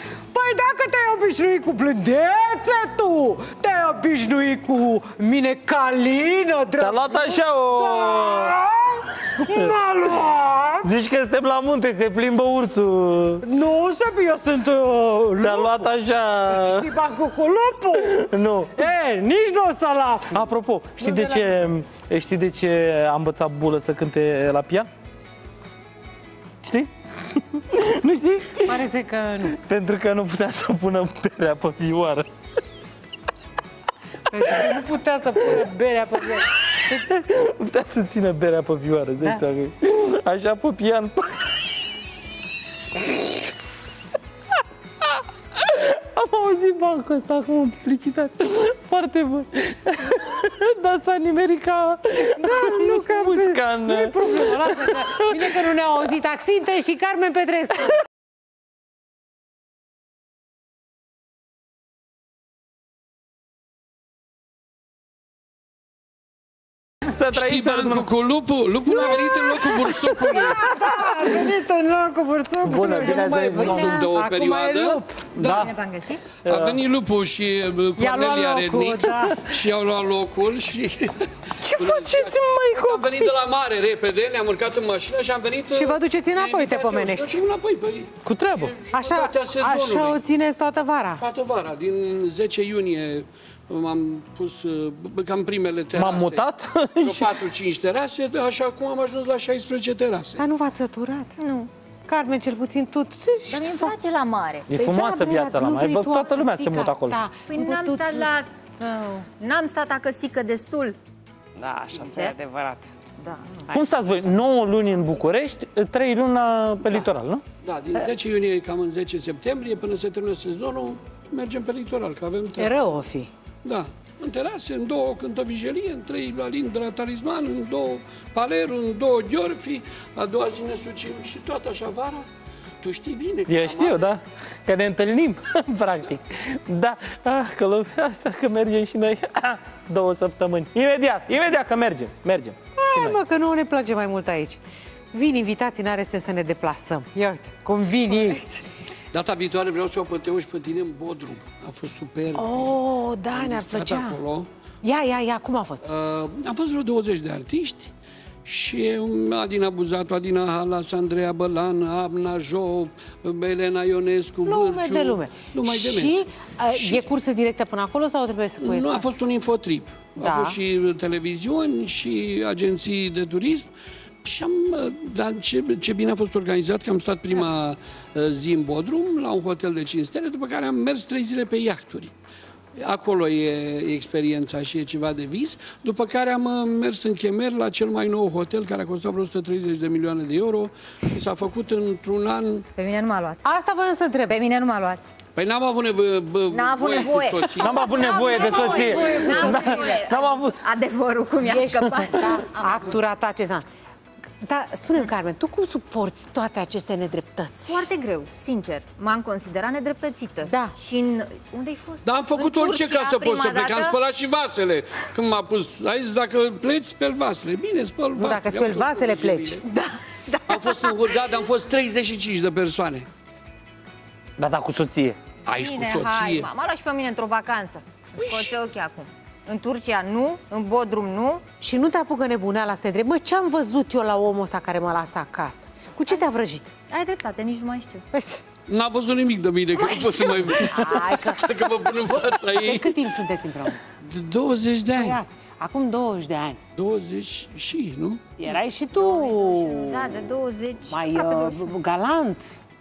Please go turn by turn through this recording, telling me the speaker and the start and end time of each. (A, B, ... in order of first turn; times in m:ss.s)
0:00.3-0:10.9 A
0:06.8-0:08.6 B
0:09.4-0:09.8 B
0:10.8-0:13.4 B
0:13.4-0:15.9 A
0:15.4-0:16.9 B
0:16.4-0:18.2 A
0:18.0-0:18.8 B
0:18.8-0:20.4 A
0:20.3-0:24.9 B
0:21.0-0:21.6 A
0:26.6-0:28.8 B
0:28.7-0:29.6 A
0:29.5-0:32.3 B
0:34.3-0:37.0 A
0:37.0-0:41.6 B
0:45.0-0:55.7 B
0:52.4-0:58.0 A
1:07.1-1:08.1 B
1:07.3-1:10.7 C
1:08.9-1:15.2 A
1:12.6-1:14.1 B
1:12.8-1:15.0 C
1:15.4-1:15.7 B
1:15.4-1:16.2 D
1:16.4-1:16.8 B
1:16.5-1:30.2 C
1:18.0-1:19.5 A
1:21.6-1:23.3 B
1:25.7-1:27.4 A
1:28.2-1:28.7 B
1:28.9-1:31.2 A
1:31.2-1:36.4 C
1:36.0-1:37.4 B
1:37.0-1:40.4 C
1:40.4-1:41.3 A
1:41.4-1:41.7 D
1:42.1-1:43.9 A
1:43.5-1:44.7 D
1:44.7-1:47.2 B
1:44.8-1:48.3 A
1:47.5-1:48.5 D
1:48.8-1:49.2 A
1:49.3-1:51.0 D
1:51.6-1:52.9 A
1:51.9-1:52.4 D
1:53.2-1:53.7 D
1:53.7-1:57.4 B
1:57.6-2:02.8 C
2:02.6-2:03.3 A
2:03.6-2:12.3 C
2:12.8-2:14.1 C
2:13.5-2:23.2 B
2:22.8-2:24.6 A
2:25.1-2:28.6 A
2:29.1-2:34.5 C
2:32.4-2:34.2 A
2:34.8-2:35.8 A
2:35.8-2:37.9 C
2:38.4-2:47.1 C
2:44.4-2:49.1 A
2:48.6-2:53.7 C
2:50.2-2:50.6 A
2:54.2-3:02.1 C
3:02.8-3:12.6 C
3:12.8-3:13.4 D
3:13.4-3:14.4 A
3:14.3-3:15.0 D
3:15.4-3:19.5 C
3:16.5-3:22.9 D
3:17.6-3:20.6 B
3:17.9-3:20.0 A
3:21.4-3:23.6 A
3:24.4-3:27.8 A
3:27.6-3:34.0 D
3:30.4-3:30.7 A
3:32.0-3:39.6 C
3:38.2-3:39.6 A
3:39.7-3:41.2 D
3:40.5-3:43.1 C
3:44.4-3:45.2 B
3:45.5-3:46.5 C
3:45.5-3:51.4 D
3:48.2-3:48.5 C
3:51.6-3:56.7 A
3:56.9-3:58.0 D
3:58.1-3:58.4 A
3:58.7-4:03.1 C
4:00.0-4:00.6 D
4:00.6-4:01.4 A
4:02.3-4:03.8 A
4:03.9-4:05.2 C
4:04.9-4:06.6 A
4:06.8-4:08.2 C
4:08.4-4:10.1 A
4:09.0-4:11.7 D
4:10.9-4:12.6 A